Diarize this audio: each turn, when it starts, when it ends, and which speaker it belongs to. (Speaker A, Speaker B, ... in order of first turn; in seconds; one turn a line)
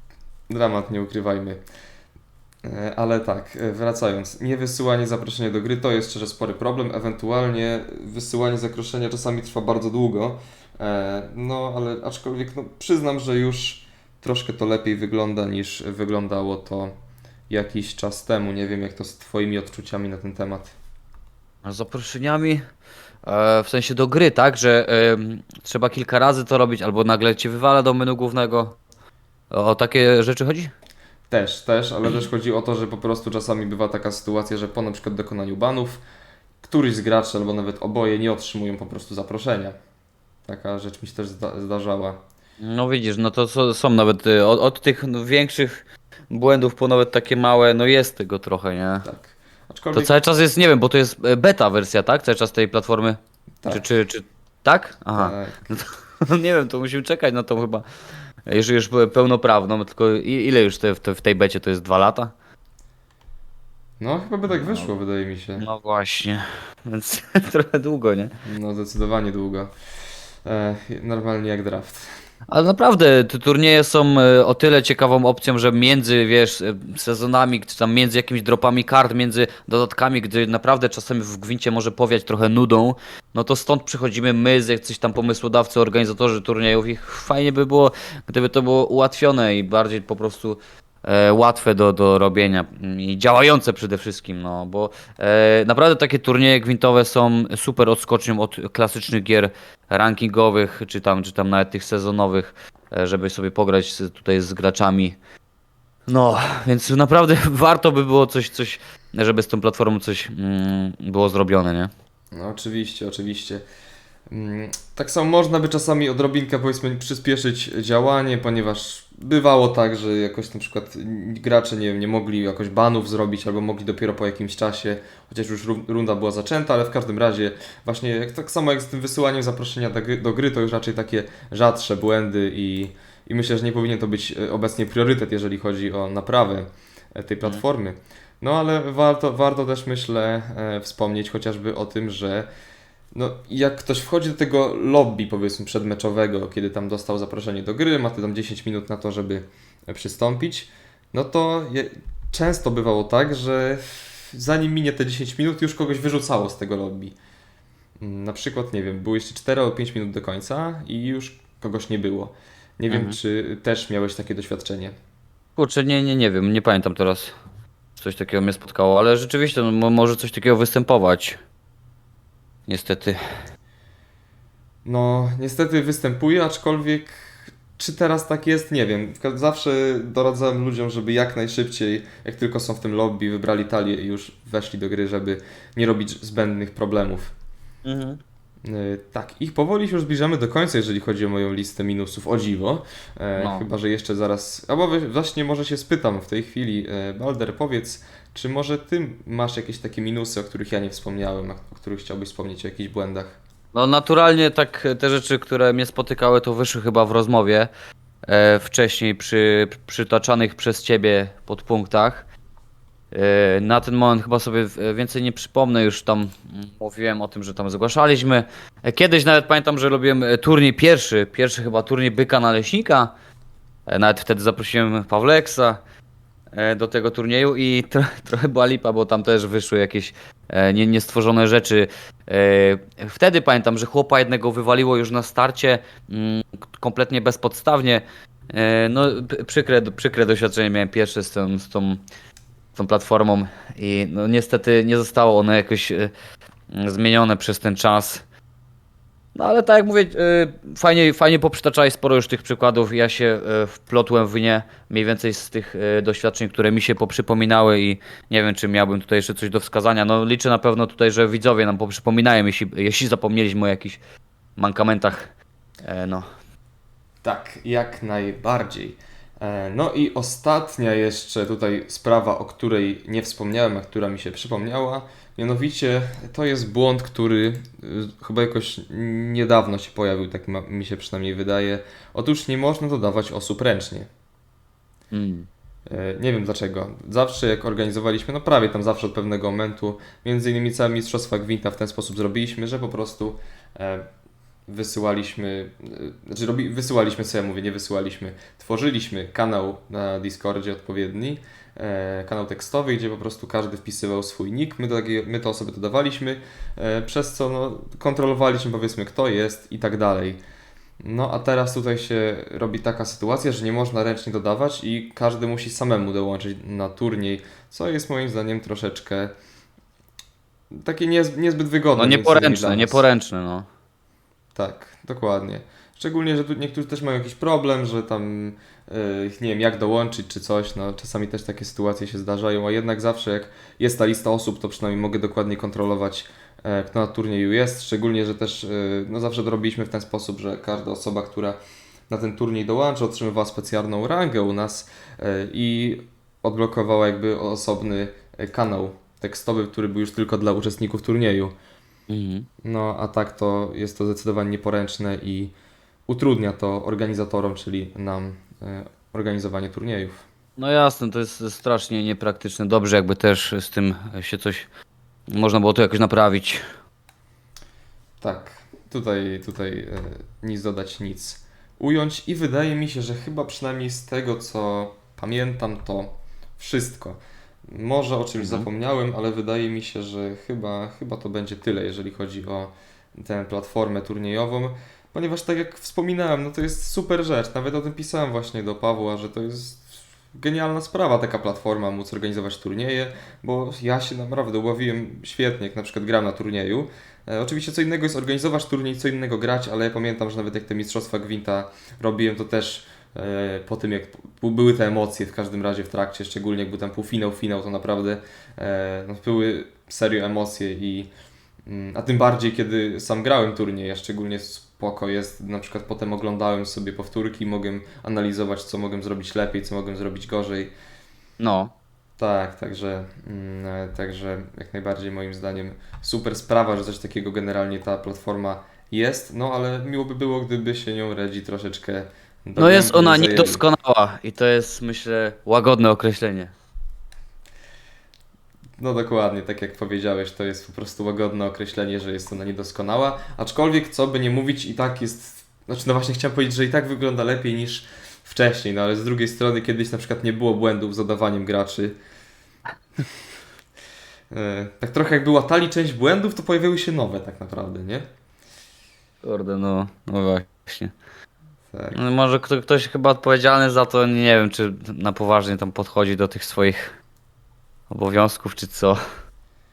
Speaker A: 0.5-1.6
Speaker A: 2.6-16.9
Speaker A: 17.5-20.7
Speaker B: 21.6-22.6
Speaker B: 23.2-28.8
Speaker B: 29.5-30.7
Speaker A: 31.3-36.0
Speaker A: 36.6-39.7
Speaker A: 40.5-42.2
Speaker B: 42.6-49.0
Speaker A: 49.0-50.1
Speaker B: 49.9-53.2
Speaker B: 53.7-57.8
Speaker A: 55.1-55.7
Speaker B: 58.5-62.3
Speaker A: 64.0-65.7
Speaker B: 64.5-64.9
Speaker B: 65.6-68.3
Speaker A: 68.4-69.7
Speaker A: 70.4-72.0
Speaker B: 72.5-105.2
Speaker B: 106.1-111.9
Speaker A: 112.3-113.6
Speaker A: 114.3-142.5
Speaker A: 143.1-157.1
Speaker A: 158.0-164.9
Speaker B: 162.9-163.2
Speaker B: 165.6-167.3
Speaker B: 167.9-171.4
Speaker B: 172.7-173.2
Speaker A: 174.8-187.3
Speaker B: 187.8-188.2
Speaker A: 188.6-203.4
Speaker B: 193.4-193.7
Speaker B: 203.7-207.7
Speaker B: 208.2-212.2
Speaker B: 213.1-223.1
Speaker B: 223.9-225.8
Speaker B: 226.5-242.0
Speaker B: 242.7-246.1
Speaker B: 246.7-248.2
Speaker B: 249.3-264.0
Speaker B: 264.6-265.3
Speaker B: 265.8-266.3
Speaker A: 267.2-284.1
Speaker B: 285.1-285.5
Speaker A: 285.9-294.1
Speaker A: 294.7-310.4
Speaker A: 311.0-319.3
Speaker A: 320.7-323.0
Speaker B: 322.0-323.6
Speaker A: 324.5-341.6
Speaker A: 342.1-351.5
Speaker B: 352.1-352.4
Speaker A: 352.6-355.5
Speaker A: 356.1-360.2
Speaker B: 360.6-364.7
Speaker B: 365.3-366.6
Speaker A: 368.2-377.2
Speaker A: 377.7-411.1
Speaker B: 378.4-378.7
Speaker A: 411.6-420.7
Speaker B: 421.4-421.7
Speaker A: 422.2-433.6
Speaker B: 432.6-436.5
Speaker A: 438.8-451.9
Speaker A: 454.3-458.1
Speaker B: 459.2-460.9
Speaker A: 461.7-462.0
Speaker B: 461.9-466.9
Speaker B: 467.9-469.0